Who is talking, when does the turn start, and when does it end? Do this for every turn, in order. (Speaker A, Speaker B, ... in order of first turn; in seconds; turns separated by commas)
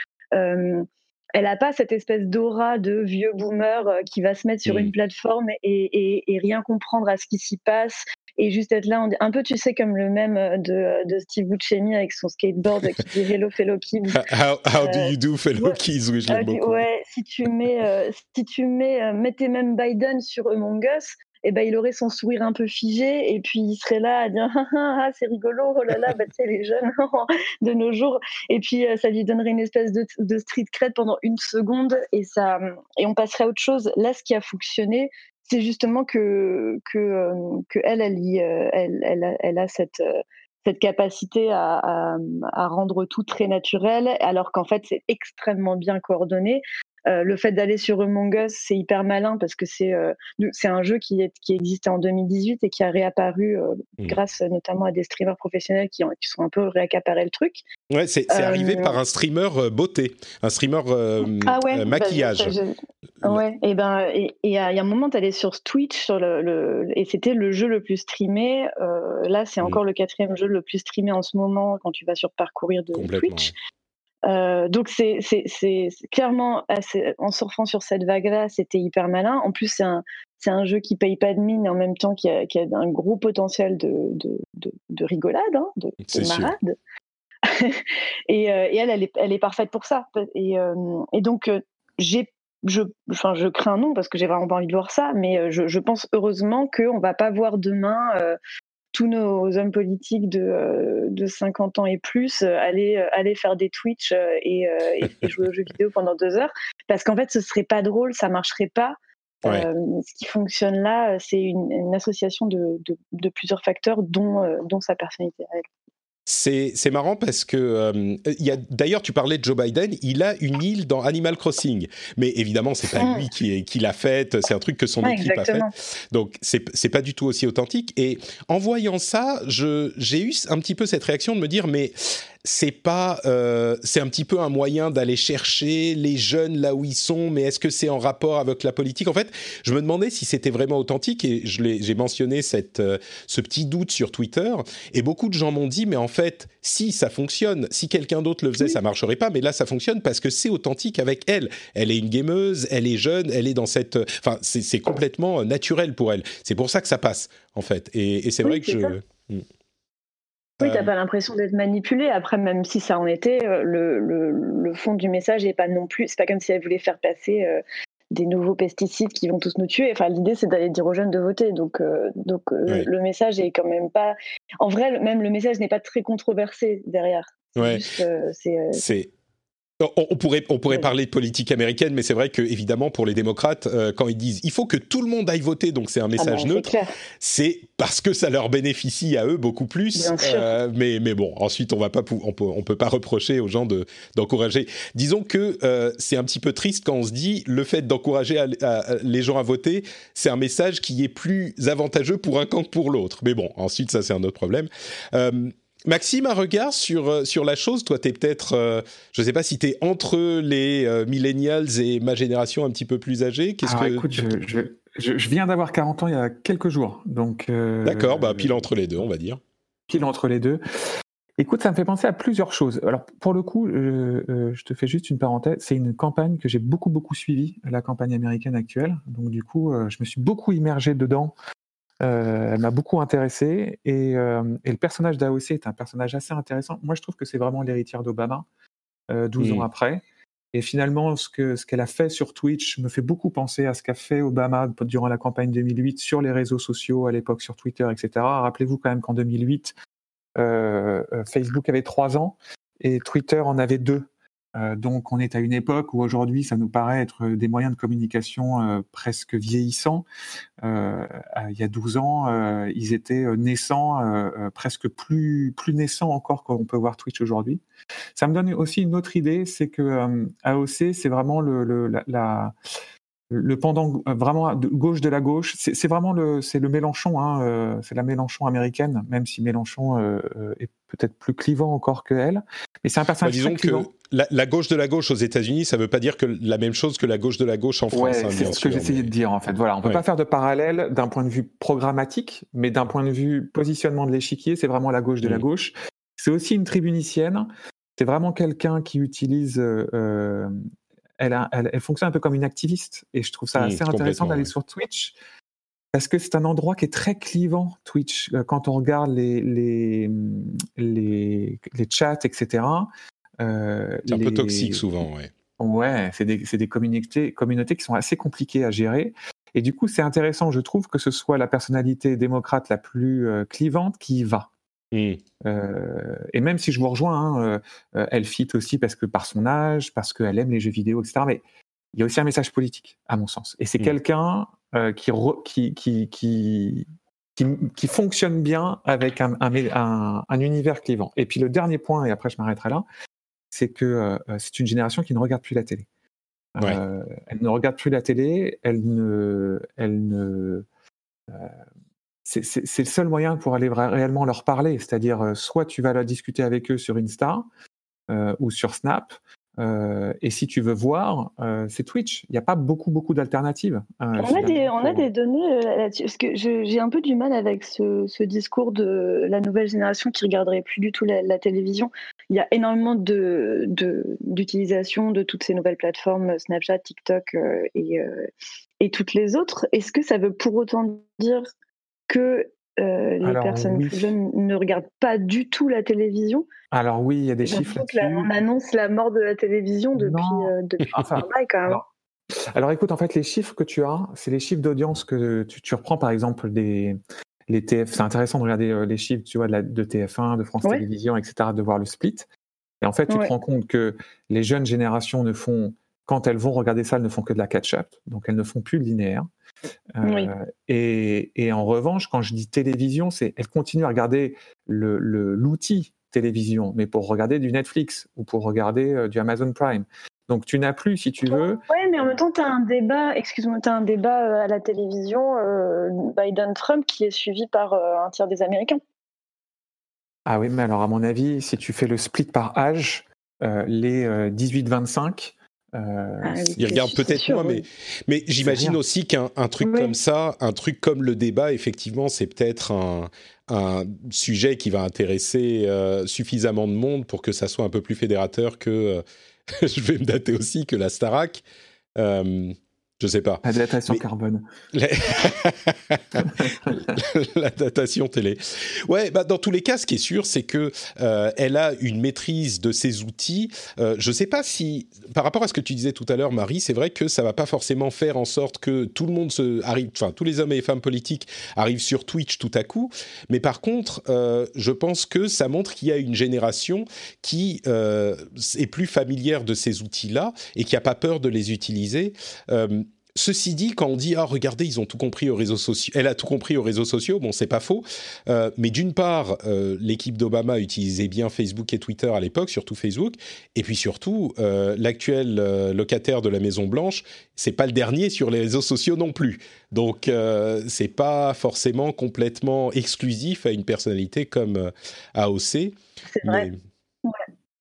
Speaker A: 0.3-14.2, Speaker B: 4.7-4.9, Speaker B: 14.1-16.8, Speaker A: 14.8-15.8, Speaker A: 16.3-57.6, Speaker B: 57.9-62.6, Speaker A: 58.3-59.0, Speaker A: 61.3-73.5, Speaker B: 72.9-73.5, Speaker A: 74.3-86.8, Speaker B: 86.0-86.5, Speaker A: 87.5-98.4, Speaker A: 98.9-115.7, Speaker B: 116.3-159.4, Speaker A: 123.0-123.2, Speaker A: 125.0-125.7, Speaker A: 158.4-158.9, Speaker B: 160.6-160.9, Speaker A: 160.6-167.6, Speaker A: 168.1-178.8, Speaker B: 177.6-177.8, Speaker B: 178.7-179.1, Speaker B: 179.8-214.4, Speaker A: 186.2-186.9, Speaker A: 189.9-190.6, Speaker C: 213.6-218.6, Speaker B: 217.8-219.4, Speaker C: 219.9-220.6, Speaker C: 221.4-231.3, Speaker C: 232.0-238.5, Speaker C: 239.1-240.0, Speaker B: 239.4-239.7, Speaker C: 240.5-249.7, Speaker C: 250.4-260.1, Speaker C: 260.6-267.6, Speaker C: 268.2-272.5, Speaker C: 273.3-283.9, Speaker B: 283.2-289.1, Speaker C: 287.9-300.6, Speaker C: 301.2-305.2, Speaker B: 303.6-304.5, Speaker C: 305.9-315.1, Speaker B: 314.1-315.3, Speaker C: 315.6-324.5, Speaker B: 324.9-325.2, Speaker C: 325.4-331.4, Speaker C: 331.9-342.9, Speaker C: 343.5-345.9, Speaker C: 346.6-350.7, Speaker C: 351.3-351.6, Speaker C: 352.3-357.5, Speaker C: 358.1-365.1, Speaker A: 364.2-378.3, Speaker A: 378.8-381.5, Speaker A: 382.1-386.5, Speaker C: 383.2-384.1, Speaker C: 386.7-388.3, Speaker A: 387.4-391.8, Speaker C: 390.0-391.9, Speaker C: 392.4-402.3, Speaker C: 402.8-409.3, Speaker A: 403.1-403.3, Speaker C: 410.0-421.6, Speaker A: 410.0-410.3, Speaker A: 421.3-428.8, Speaker C: 430.3-436.9, Speaker A: 436.2-437.6, Speaker B: 436.6-451.4, Speaker C: 438.4-438.8, Speaker A: 439.6-439.9, Speaker B: 452.0-454.0, Speaker C: 453.4-454.4, Speaker B: 454.7-506.6, Speaker C: 456.2-456.8, Speaker A: 506.1-506.5